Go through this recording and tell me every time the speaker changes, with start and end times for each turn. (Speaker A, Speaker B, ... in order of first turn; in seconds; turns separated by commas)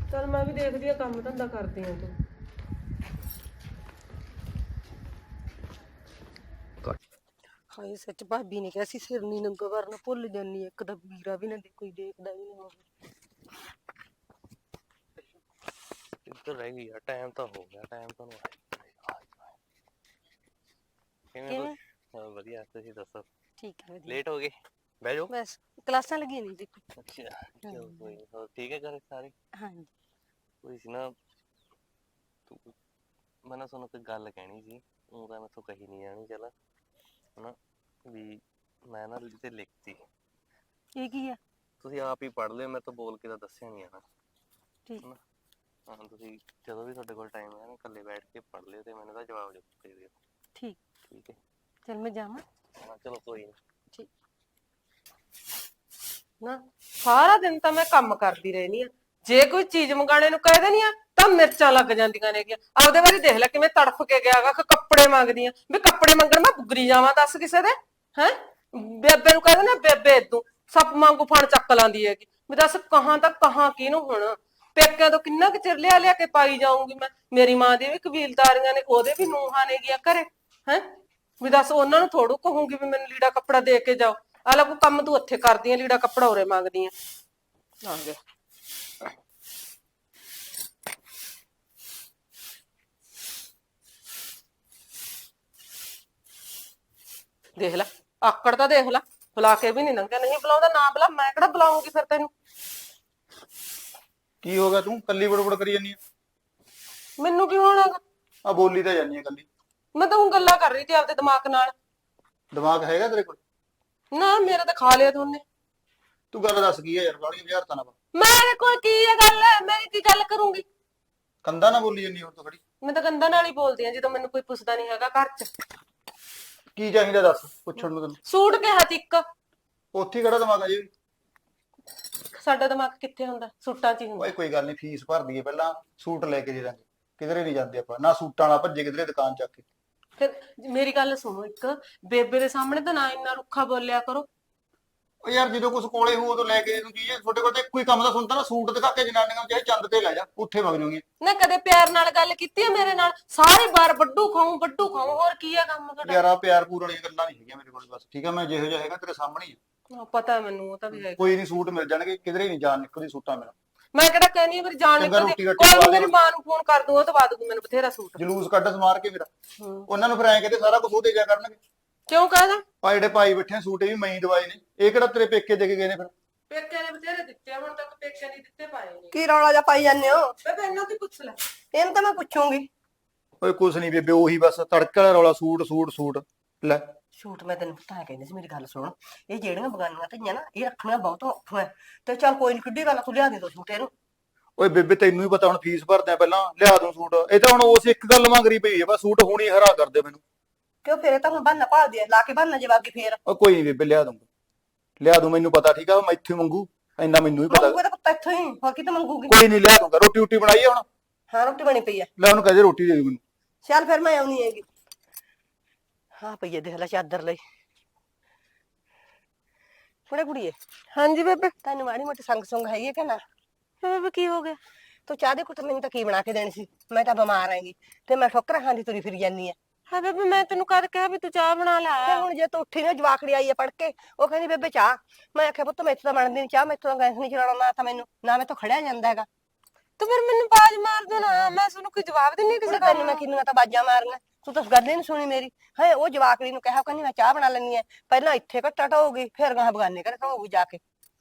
Speaker A: 0.1-2.1, Speaker B: 7.7-12.8, Speaker C: 16.3-19.5, Speaker C: 21.3-23.2, Speaker B: 21.5-21.8, Speaker B: 23.6-24.1, Speaker C: 24.1-25.3, Speaker B: 25.3-26.8, Speaker C: 27.0-29.3, Speaker B: 29.6-29.9, Speaker C: 30.6-31.1, Speaker C: 32.5-32.7, Speaker C: 33.5-36.5, Speaker C: 38.1-40.0, Speaker B: 41.0-41.4, Speaker C: 41.8-44.0, Speaker C: 45.9-50.1, Speaker C: 51.1-51.4, Speaker B: 51.9-52.4, Speaker C: 52.8-53.5, Speaker A: 56.4-80.9, Speaker A: 81.4-86.9, Speaker A: 87.8-88.2, Speaker A: 97.6-102.3, Speaker D: 104.4-106.0, Speaker A: 107.2-108.0, Speaker D: 108.5-109.5, Speaker A: 110.0-111.7, Speaker D: 112.5-113.4, Speaker A: 114.1-115.4, Speaker D: 116.3-117.9, Speaker A: 118.2-120.6, Speaker D: 121.4-122.6, Speaker A: 122.8-125.5, Speaker D: 126.8-128.2, Speaker A: 128.3-129.2, Speaker D: 129.9-130.9, Speaker A: 132.3-134.3, Speaker D: 134.2-139.6, Speaker A: 140.2-144.3, Speaker D: 145.2-151.0, Speaker A: 151.2-156.2, Speaker D: 156.0-159.6, Speaker A: 159.9-161.3, Speaker D: 160.9-163.5, Speaker A: 163.9-168.2, Speaker D: 165.0-166.1, Speaker D: 168.2-169.3, Speaker A: 169.6-169.9, Speaker D: 169.9-171.6, Speaker A: 172.1-172.6, Speaker D: 172.8-176.1, Speaker A: 176.5-179.2, Speaker E: 179.1-180.3, Speaker A: 180.4-181.4, Speaker E: 181.7-182.7, Speaker D: 183.4-186.9, Speaker E: 187.2-193.9, Speaker D: 194.6-200.2, Speaker E: 200.8-203.2, Speaker D: 203.2-204.2, Speaker D: 205.0-207.8, Speaker E: 207.5-209.4, Speaker D: 209.3-210.8, Speaker E: 211.3-212.1, Speaker D: 212.2-213.2, Speaker E: 213.6-214.7, Speaker E: 216.2-217.4, Speaker E: 220.1-220.6, Speaker A: 220.9-221.5, Speaker E: 221.6-223.2, Speaker A: 223.8-224.6, Speaker E: 225.1-229.6, Speaker A: 229.9-232.3, Speaker E: 232.1-239.3, Speaker A: 240.0-243.2, Speaker E: 242.7-250.8